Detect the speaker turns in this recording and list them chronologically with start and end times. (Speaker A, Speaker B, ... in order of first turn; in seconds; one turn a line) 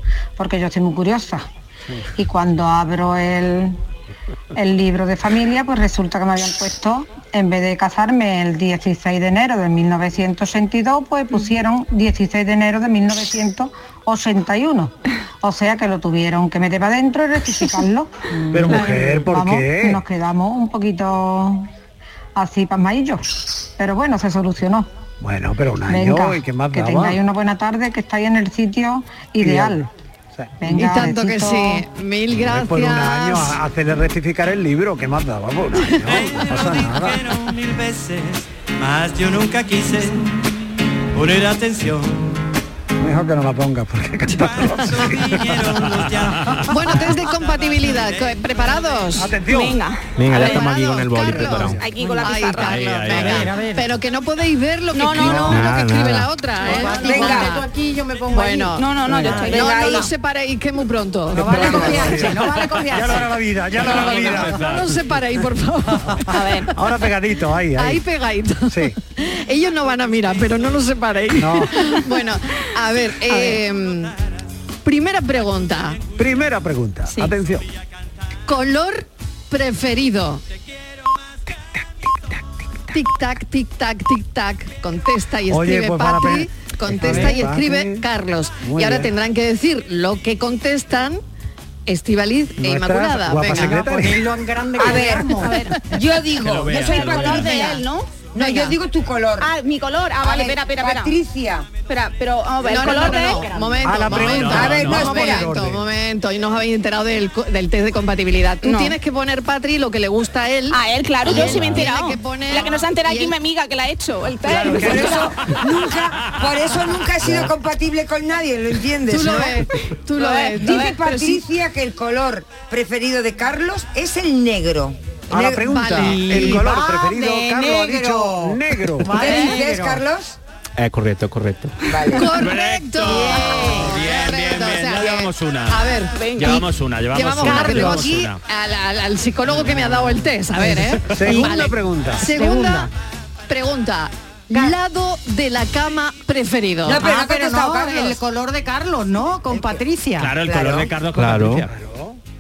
Speaker A: 0.4-1.4
Speaker A: 2.2-3.8
Speaker A: 4.5-21.7
Speaker B: 18.5-20.0
Speaker A: 22.4-24.9
Speaker B: 25.2-27.2
Speaker A: 25.9-29.9
Speaker B: 29.4-29.8
Speaker B: 30.3-30.6
Speaker A: 30.6-31.8
Speaker C: 30.7-33.6
Speaker B: 32.3-37.2
Speaker D: 36.0-40.4
Speaker D: 41.1-42.3
Speaker B: 43.0-45.6
Speaker D: 44.4-48.3
Speaker E: 46.4-46.6
Speaker C: 46.7-49.3
Speaker B: 49.1-49.8
Speaker F: 49.5-50.6
Speaker G: 50.2-51.8
Speaker C: 50.3-57.6
Speaker F: 51.5-52.9
Speaker H: 52.0-52.3
Speaker E: 52.5-53.5
Speaker H: 52.8-53.9
Speaker F: 54.9-55.6
Speaker G: 55.2-56.3
Speaker H: 56.6-59.4
Speaker I: 57.0-57.5
Speaker C: 58.3-62.0
Speaker F: 58.8-60.0
Speaker I: 59.3-60.1
Speaker H: 61.3-63.3
Speaker B: 61.4-64.6
Speaker I: 61.5-62.1
Speaker E: 63.8-65.0
Speaker C: 63.9-66.4
Speaker F: 66.3-66.7
Speaker B: 66.7-68.0
Speaker C: 67.8-74.1
Speaker B: 68.7-68.9
Speaker B: 71.4-71.7
Speaker F: 73.3-73.6
Speaker C: 74.8-76.0
Speaker B: 76.2-77.7
Speaker C: 78.5-80.4
Speaker C: 82.9-91.2
Speaker B: 85.5-88.0
Speaker B: 88.6-89.1
Speaker C: 91.8-93.8
Speaker B: 92.6-94.3
Speaker H: 93.5-95.6
Speaker I: 94.8-95.4
Speaker F: 95.4-95.8
Speaker I: 95.9-97.8
Speaker E: 96.4-97.6
Speaker F: 96.7-98.7
Speaker I: 98.3-99.5
Speaker F: 99.4-101.2
Speaker I: 100.2-101.7
Speaker F: 101.9-103.6
Speaker C: 102.6-113.2
Speaker H: 102.8-103.8
Speaker B: 103.8-105.8
Speaker E: 104.1-105.1
Speaker I: 104.5-105.5
Speaker F: 108.6-108.9
Speaker F: 110.7-115.3
Speaker B: 114.4-115.3
Speaker I: 114.7-119.6
Speaker C: 119.1-121.4
Speaker F: 120.2-121.0
Speaker I: 120.6-125.7
Speaker B: 125.3-129.2
Speaker C: 125.7-126.6
Speaker H: 126.0-128.3
Speaker I: 127.8-128.6
Speaker H: 129.0-130.0
Speaker I: 129.1-130.4
Speaker C: 129.3-129.5
Speaker G: 130.8-131.8
Speaker I: 131.9-132.3
Speaker C: 132.1-142.9
Speaker E: 132.2-138.4
Speaker H: 133.4-133.8
Speaker F: 136.1-136.6
Speaker H: 137.3-138.1
Speaker H: 140.6-142.9
Speaker B: 141.1-142.2
Speaker C: 143.5-147.2
Speaker I: 146.8-148.2
Speaker H: 146.9-150.3
Speaker I: 149.5-149.8
Speaker E: 150.2-151.7
Speaker I: 150.4-150.9
Speaker G: 151.1-151.6
Speaker B: 151.6-152.2